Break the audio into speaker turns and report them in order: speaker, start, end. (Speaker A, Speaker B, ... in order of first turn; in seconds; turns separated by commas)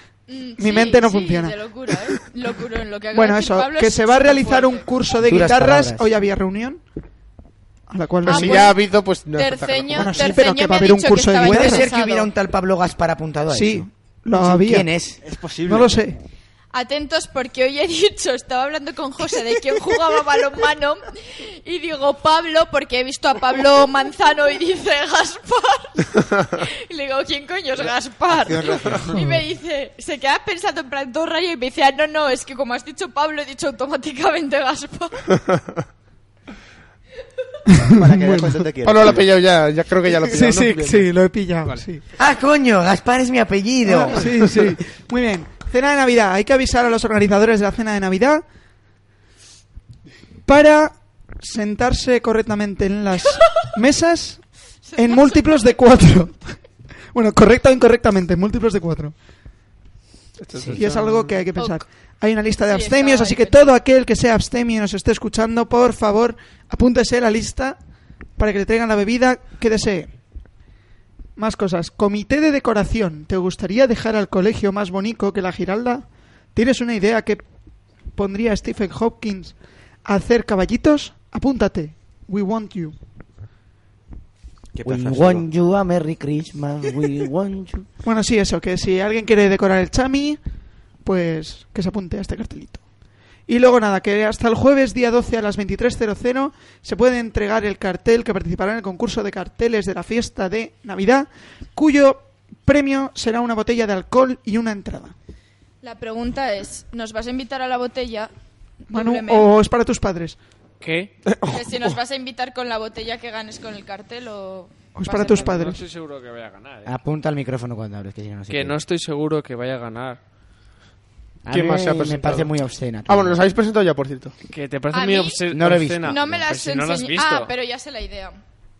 Speaker A: 0.3-4.8, Speaker B: 0.6-2.1, Speaker B: 3.1-6.8, Speaker C: 5.2-6.1, Speaker B: 7.9-8.7, Speaker D: 8.2-10.3, Speaker A: 8.2-12.3, Speaker B: 9.9-11.8, Speaker C: 11.4-15.2, Speaker B: 13.5-14.9, Speaker E: 15.2-16.0, Speaker B: 15.7-16.1, Speaker A: 16.7-35.3, Speaker E: 28.3-29.1, Speaker E: 37.8-39.4, Speaker B: 38.0-38.6, Speaker D: 38.8-41.1, Speaker B: 40.2-42.0, Speaker C: 42.2-44.5, Speaker B: 43.8-48.4, Speaker B: 50.5-54.4, Speaker A: 54.9-55.7, Speaker B: 55.0-56.4, Speaker B: 57.1-59.1, Speaker D: 60.4-61.4, Speaker C: 60.5-60.8, Speaker B: 60.7-67.8, Speaker A: 61.5-61.8, Speaker A: 62.7-63.7, Speaker B: 68.4-70.1, Speaker B: 71.4-77.4, Speaker B: 78.1-82.9, Speaker E: 84.7-85.5, Speaker C: 84.8-87.9, Speaker B: 88.0-90.4, Speaker B: 91.0-92.8, Speaker B: 93.5-105.1, Speaker A: 105.8-108.3, Speaker A: 108.9-109.5, Speaker B: 108.9-110.4, Speaker F: 110.8-111.1, Speaker D: 111.3-111.9, Speaker A: 111.5-115.6, Speaker B: 114.9-115.8, Speaker F: 115.3-116.9, Speaker C: 116.8-118.8, Speaker F: 118.5-120.2, Speaker C: 121.4-123.4, Speaker D: 121.5-122.5, Speaker D: 123.0-124.3, Speaker F: 124.5-127.5, Speaker A: 124.9-125.4, Speaker C: 125.5-126.4, Speaker A: 126.0-128.4